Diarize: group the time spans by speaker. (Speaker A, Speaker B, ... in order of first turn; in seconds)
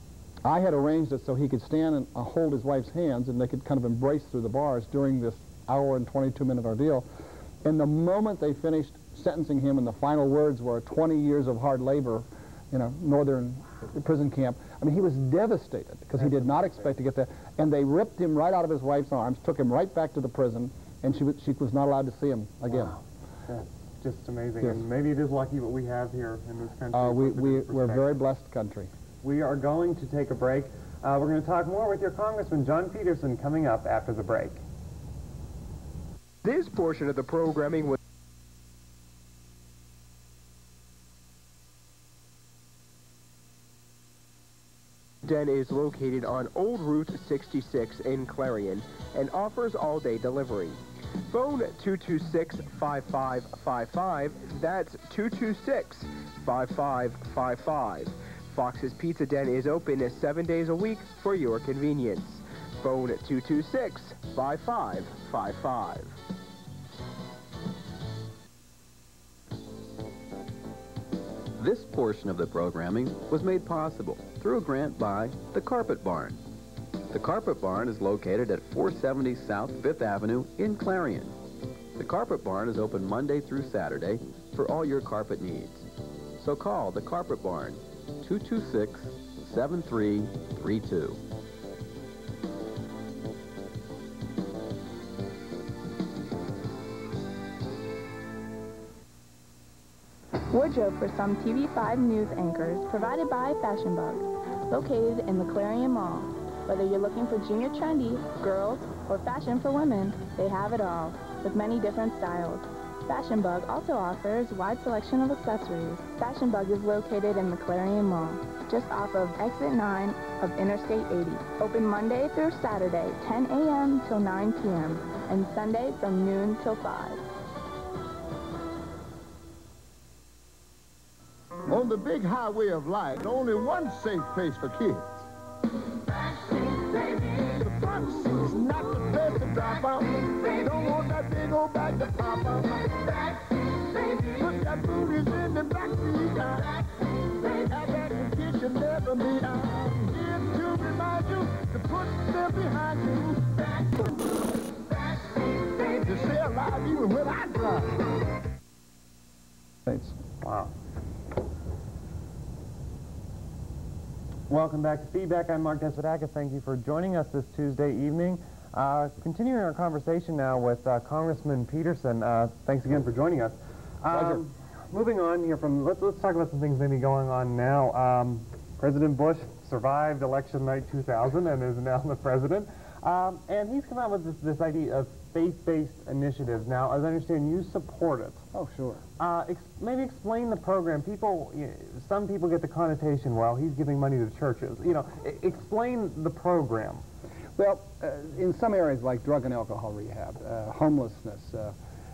Speaker A: 0.4-7.0, 7.6-23.0, 26.9-28.9, 159.9-160.1, 174.1-174.4, 188.5-189.0, 197.6-201.7
Speaker B: 16.2-16.6, 23.5-28.2, 29.2-34.6, 160.4-160.7, 164.5-188.4, 189.2-197.0
Speaker C: 36.4-38.0, 45.2-66.2
Speaker D: 71.6-76.4, 77.1-81.3, 82.0-85.9, 86.4-91.2
Speaker E: 100.5-127.2
Speaker F: 131.7-135.3, 136.1-158.3